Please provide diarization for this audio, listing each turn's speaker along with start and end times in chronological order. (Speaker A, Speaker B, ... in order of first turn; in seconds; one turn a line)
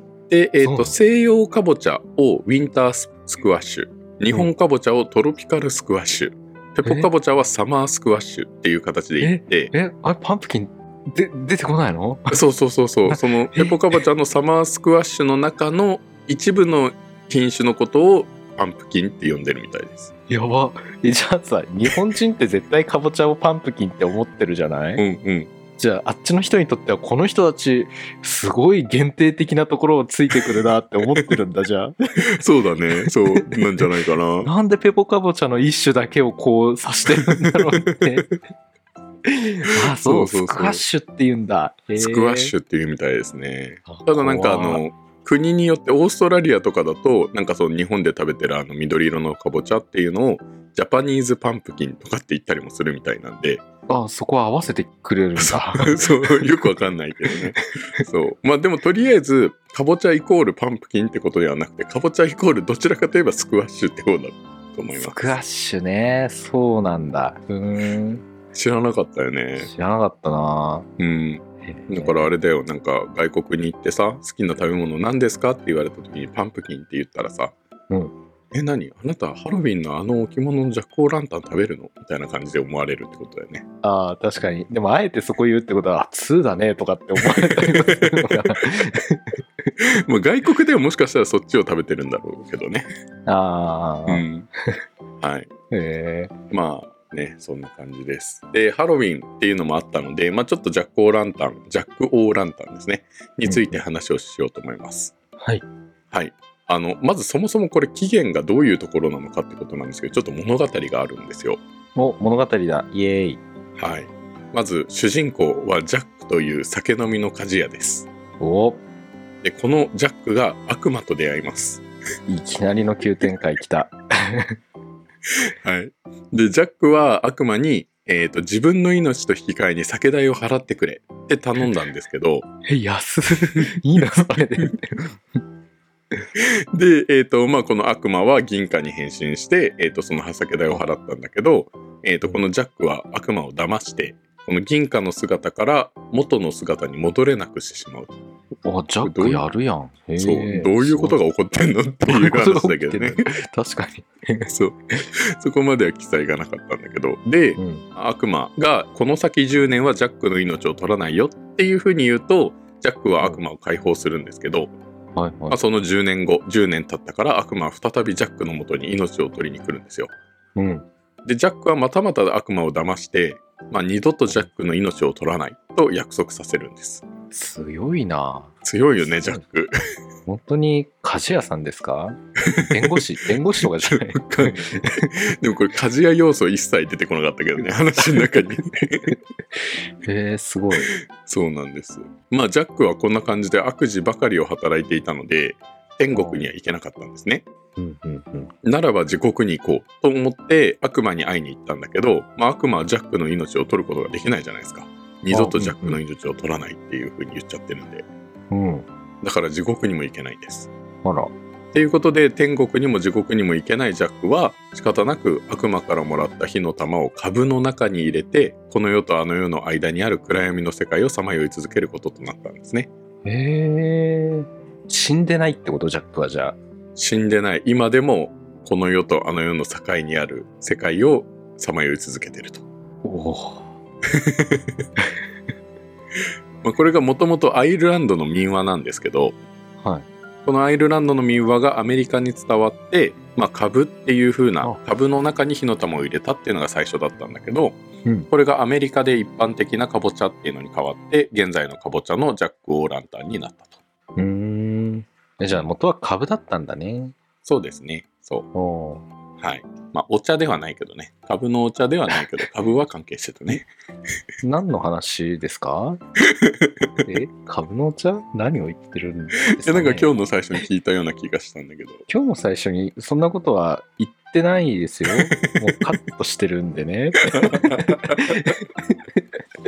Speaker A: 0.3-9.7
Speaker B: 0.6-1.0
Speaker B: 6.8-7.1
Speaker B: 9.2-12.4
Speaker A: 12.3-20.1
Speaker B: 13.1-13.8
Speaker B: 20.3-25.0
Speaker A: 25.0-25.5
Speaker B: 25.8-31.9
Speaker A: 32.2-34.5
Speaker B: 33.0-33.9
Speaker B: 34.4-38.3
Speaker A: 37.3-38.2
Speaker B: 39.2-42.5
Speaker A: 39.8-40.8
Speaker A: 42.0-53.6
Speaker B: 43.9-44.8
Speaker B: 53.9-56.7
Speaker A: 55.4-65.3
Speaker B: 65.0-68.2
Speaker A: 68.5-69.7
Speaker B: 69.6-70.9
Speaker A: 71.0-77.5
Speaker B: 71.6-72.3
Speaker B: 77.9-78.2
Speaker A: 78.5-83.6
Speaker B: 83.8-89.7
Speaker A: 87.2-88.5
Speaker A: 89.8-92.9
Speaker B: 93.3-94.8
Speaker A: 94.1-94.5
Speaker A: 95.2-95.5
Speaker B: 95.7-96.3
Speaker A: 96.5-105.1
Speaker B: 103.5-103.8
Speaker B: 105.4-105.6
Speaker A: 106.1-111.6
Speaker B: 112.0-113.4
Speaker A: 113.8-118.1
Speaker B: 118.4-118.8
Speaker A: 119.4-121.8
Speaker B: 122.3-124.6
Speaker A: 125.4-132.5
Speaker B: 132.7-135.2
Speaker A: 136.4-148.1
Speaker B: 148.7-151.2
Speaker A: 149.0-149.4
Speaker A: 150.2-153.2
Speaker B: 152.1-154.5
Speaker A: 154.5-164.7
Speaker B: 157.6-157.8
Speaker B: 165.2-165.6
Speaker A: 165.5-170.1
Speaker B: 170.6-170.9
Speaker A: 171.2-177.0
Speaker B: 177.3-178.5
Speaker A: 178.6-179.7
Speaker B: 179.2-179.4
Speaker B: 180.3-185.2
Speaker A: 182.5-183.0
Speaker A: 183.6-189.2
Speaker B: 188.0-188.4
Speaker B: 190.0-190.9
Speaker A: 190.9-197.4
Speaker B: 196.1-196.5
Speaker B: 197.8-198.5
Speaker A: 198.6-208.1
Speaker B: 205.3-206.0
Speaker B: 208.5-208.9
Speaker A: 209.2-210.7
Speaker B: 211.0-211.3
Speaker A: 211.7-222.9
Speaker B: 223.2-226.6
Speaker A: 227.0-232.6
Speaker B: 233.0-233.7
Speaker A: 234.1-234.8
Speaker A: 236.6-239.4
Speaker B: 239.8-240.1
Speaker A: 240.4-247.8
Speaker A: 248.3-253.8
Speaker B: 254.2-257.1
Speaker A: 257.4-258.5
Speaker B: 258.5-259.1
Speaker A: 259.4-263.7
Speaker B: 264.4-266.0
Speaker A: 266.2-267.1
Speaker B: 267.1-270.1
Speaker A: 269.6-272.1
Speaker B: 272.1-279.2
Speaker A: 275.1-275.8
Speaker A: 277.3-278.5